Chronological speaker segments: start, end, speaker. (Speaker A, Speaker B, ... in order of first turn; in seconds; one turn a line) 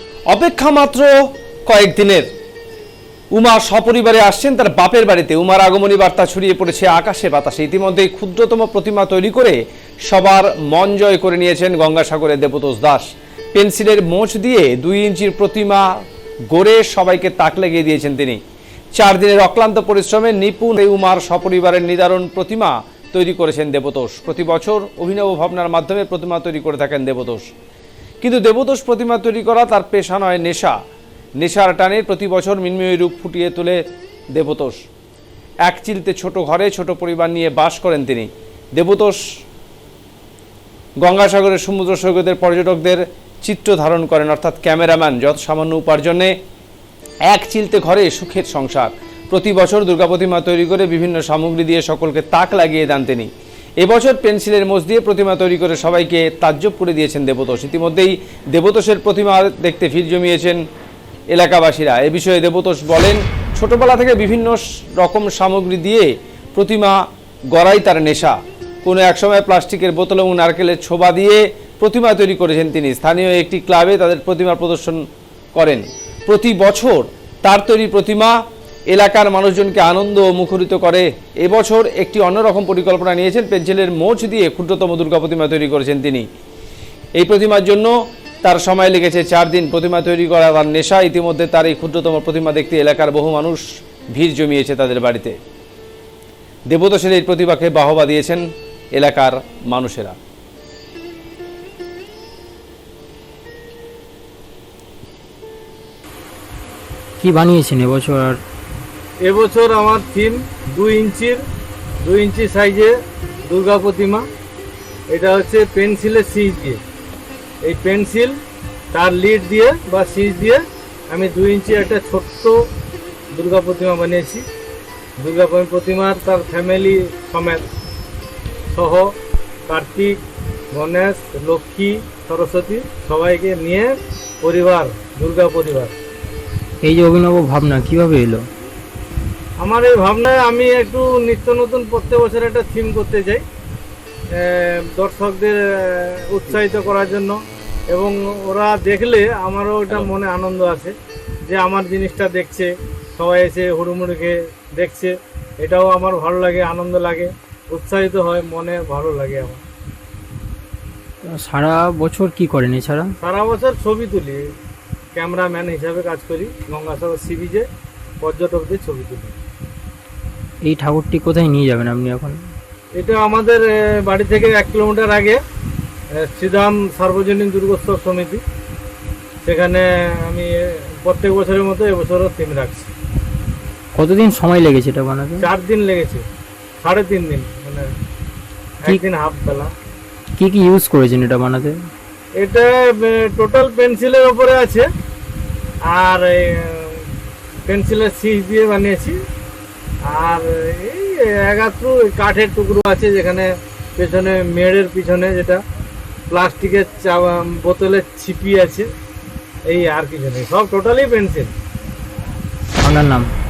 Speaker A: 0.3-2.3
Speaker A: 3.3-18.4
Speaker A: 18.9-27.5
Speaker A: 28.2-30.8
Speaker A: 31.4-34.8
Speaker A: 35.6-39.2
Speaker A: 41.0-46.4
Speaker A: 47.2-53.3
Speaker A: 53.8-60.6
Speaker A: 61.3-67.0
Speaker A: 67.5-75.0
Speaker A: 75.5-78.3
Speaker A: 78.9-86.3
Speaker A: 87.2-93.6
Speaker A: 94.1-95.4
Speaker A: 96.7-100.2
Speaker B: 107.2-108.4
Speaker C: 109.2-111.4
Speaker C: 112.0-112.9
Speaker C: 113.5-114.3
Speaker C: 115.1-116.8
Speaker C: 117.6-118.4
Speaker C: 118.9-122.6
Speaker C: 123.3-124.4
Speaker C: 125.2-127.6
Speaker C: 128.7-129.1
Speaker C: 129.7-130.2
Speaker C: 130.7-133.9
Speaker C: 134.4-135.9
Speaker B: 136.8-138.4
Speaker C: 139.6-143.4
Speaker C: 144.4-147.4
Speaker C: 147.9-150.9
Speaker C: 151.5-159.6
Speaker B: 161.4-163.1
Speaker C: 163.2-164.4
Speaker C: 165.2-167.7
Speaker C: 168.2-169.4
Speaker B: 170.6-172.4
Speaker C: 173.0-175.4
Speaker C: 176.2-178.4
Speaker C: 179.4-180.5
Speaker C: 181.0-182.9
Speaker B: 184.0-185.5
Speaker C: 185.4-186.2
Speaker C: 186.8-187.9
Speaker C: 188.8-189.7
Speaker B: 190.4-191.8
Speaker C: 192.4-194.9
Speaker C: 195.9-197.0
Speaker C: 197.7-199.2
Speaker C: 200.1-205.6
Speaker C: 206.3-208.9
Speaker C: 209.7-211.5
Speaker B: 212.8-213.3